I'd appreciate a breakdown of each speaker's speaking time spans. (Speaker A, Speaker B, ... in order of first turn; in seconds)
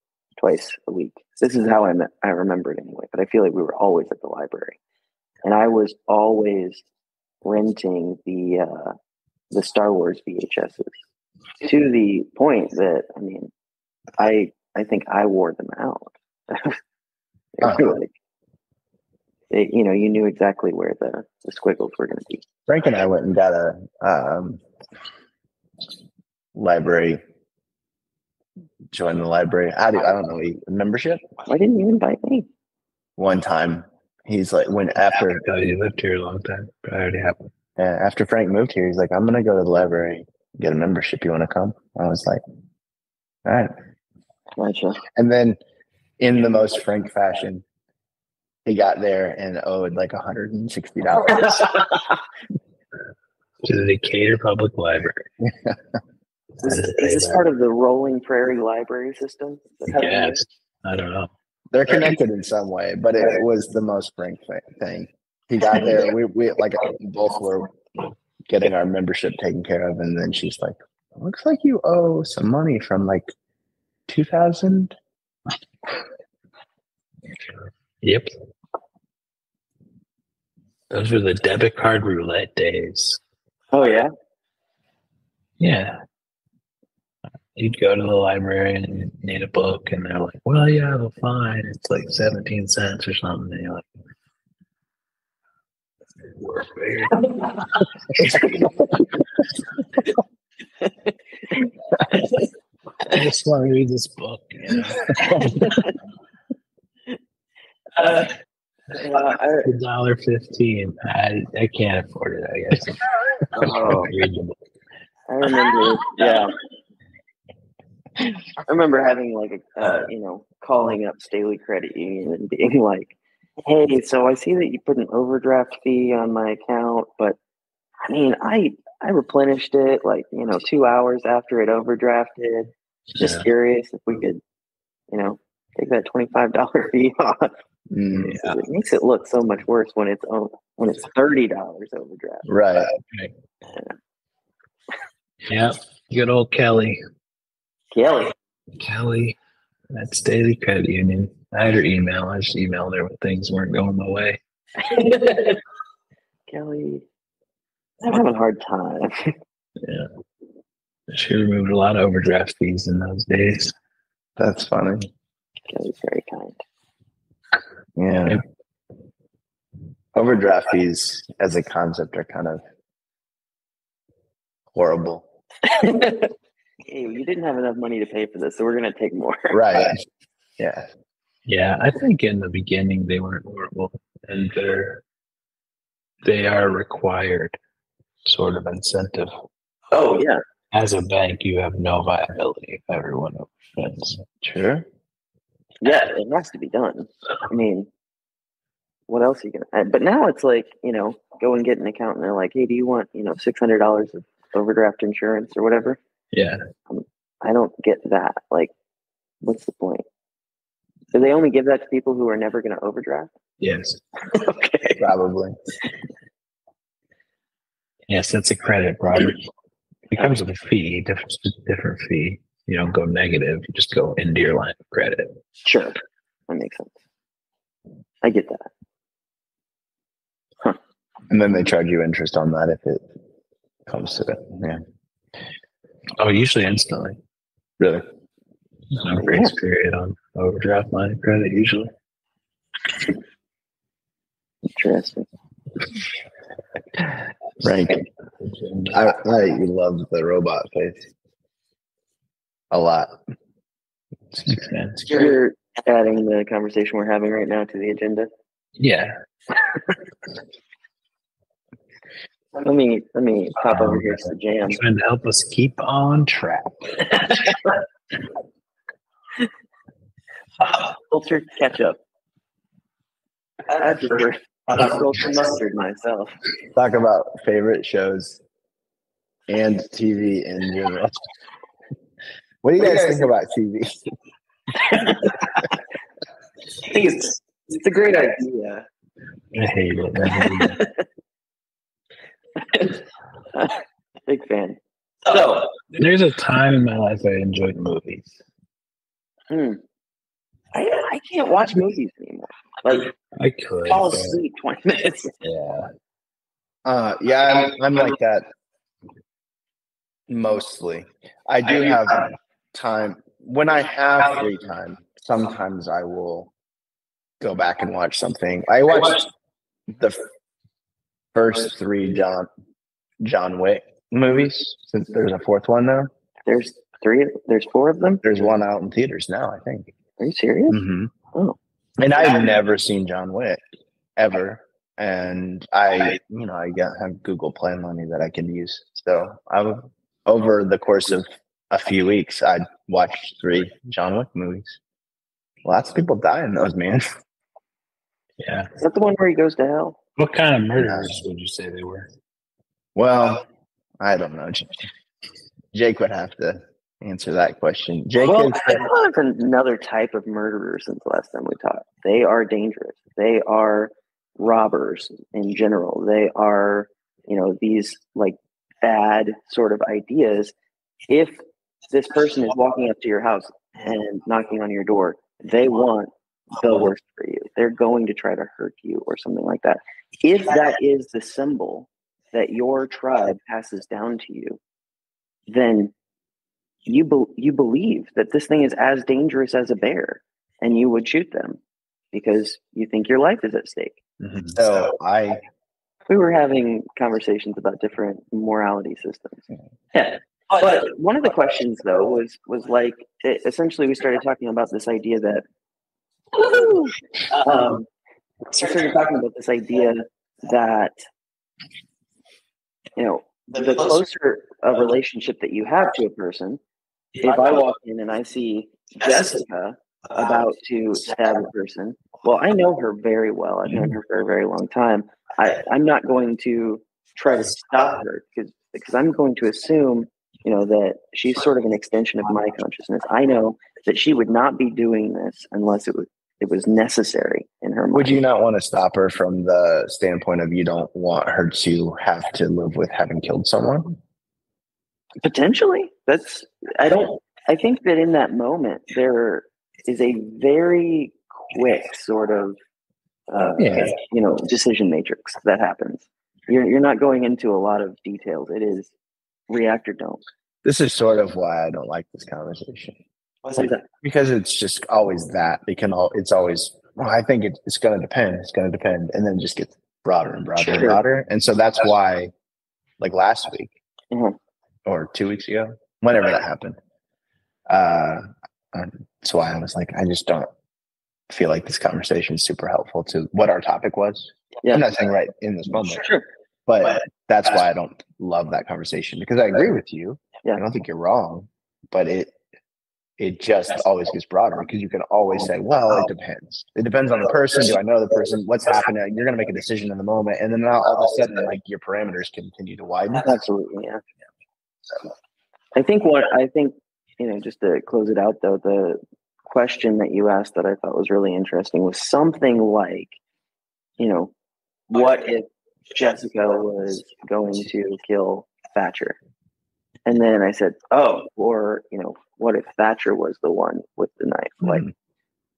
Speaker A: 0.4-4.8, 5.4-6.8, 7.4-8.9, 9.5-10.9, 11.6-13.5, 14.2-16.8, 17.6-18.1, 19.5-22.4, 31.5-32.5, 44.6-45.0, 56.6-60.4, 83.7-84.1, 105.2-105.9, 108.0-108.3, 108.9-109.7, 113.5-114.2, 115.3-116.6, 118.6-127.4, 128.1-134.4, 135.1-137.5, 138.4-142.4, 147.9-148.3, 154.8-155.6, 156.5-157.0, 158.0-159.3, 165.7-166.6, 175.6-176.3, 176.8-180.0, 189.9-190.4, 195.8-197.9, 199.1-206.0, 206.9-208.7, 209.4-210.0, 211.1-213.3, 214.3-215.0, 225.6-226.0, 226.5-226.9, 228.2-228.7, 239.2-239.5, 244.7-245.2, 255.1-258.3, 262.5-264.8, 267.2-267.7, 270.6-272.0, 273.7-276.3, 284.8-285.6, 286.8-288.9, 290.3-291.0, 292.6-293.0, 293.5-295.7, 299.5-299.8, 300.7-303.1, 303.9-305.4, 326.4-328.2, 330.2-330.8, 348.8-350.0, 358.2-370.5, 371.1-384.6, 385.5-385.9, 386.9-391.6, 392.1-394.0, 396.1-405.4, 406.3-407.9, 408.4-410.9, 413.0-416.6, 417.2-438.2, 445.2-452.6, 453.3-458.9, 459.5-460.2, 463.4-463.8, 470.6-471.0, 474.1-474.4, 503.2-504.0, 505.7-513.1, 514.0-514.3, 514.9-519.2, 520.0-524.8
Speaker B: 17.6-17.9, 22.7-24.6, 26.5-27.2, 28.9-31.2, 33.2-35.4, 37.8-42.4, 43.4-43.7, 45.1-45.6, 46.2-47.6, 48.6-51.9, 61.7-67.8, 68.5-73.3, 74.1-74.9, 137.9-138.4, 142.4-142.9, 164.4-165.1, 168.0-168.4, 170.1-172.6, 174.7-175.2, 179.5-180.0, 180.6-180.9, 194.4-194.8, 215.0-215.6, 231.3-233.0, 233.9-234.8, 237.8-238.1, 247.6-248.0, 248.9-251.1, 252.7-253.2, 276.7-278.4, 279.5-281.2, 282.6-284.1, 306.8-308.4, 310.3-316.5, 317.4-319.3, 319.9-320.2, 321.3-322.5, 323.2-326.1, 328.2-329.9, 330.7-331.1, 332.0-333.6, 334.2-344.8, 345.6-347.2, 350.8-351.2, 352.9-353.4, 354.0-354.9, 355.7-358.9, 394.5-395.4, 437.9-444.0, 460.6-463.0, 464.0-472.3, 473.0-473.7, 474.9-476.8, 477.7-480.5, 481.3-486.1, 486.7-492.3, 493.2-503.3, 524.6-524.9
Speaker C: 35.4-37.5, 53.6-55.3, 56.7-57.4, 59.9-61.3, 78.0-78.3, 80.9-83.2, 85.6-86.0, 87.5-93.8, 96.3-97.3, 103.1-105.8, 109.6-113.1, 113.6-114.5, 138.2-138.5, 143.0-143.3, 145.5-147.0, 148.8-149.3, 149.9-154.4, 159.8-160.1, 161.1-163.7, 181.4-185.0, 186.2-187.6, 188.2-189.3, 190.7-194.2, 206.3-206.6, 213.6-214.0, 218.1-219.5, 220.1-225.3, 236.2-237.2, 238.9-241.9, 248.4-248.9, 254.4-255.1, 258.8-259.1, 263.7-267.4, 289.5-290.8, 295.9-298.4, 303.4-304.4, 305.4-305.9, 348.4-348.7, 350.2-352.1, 394.2-394.5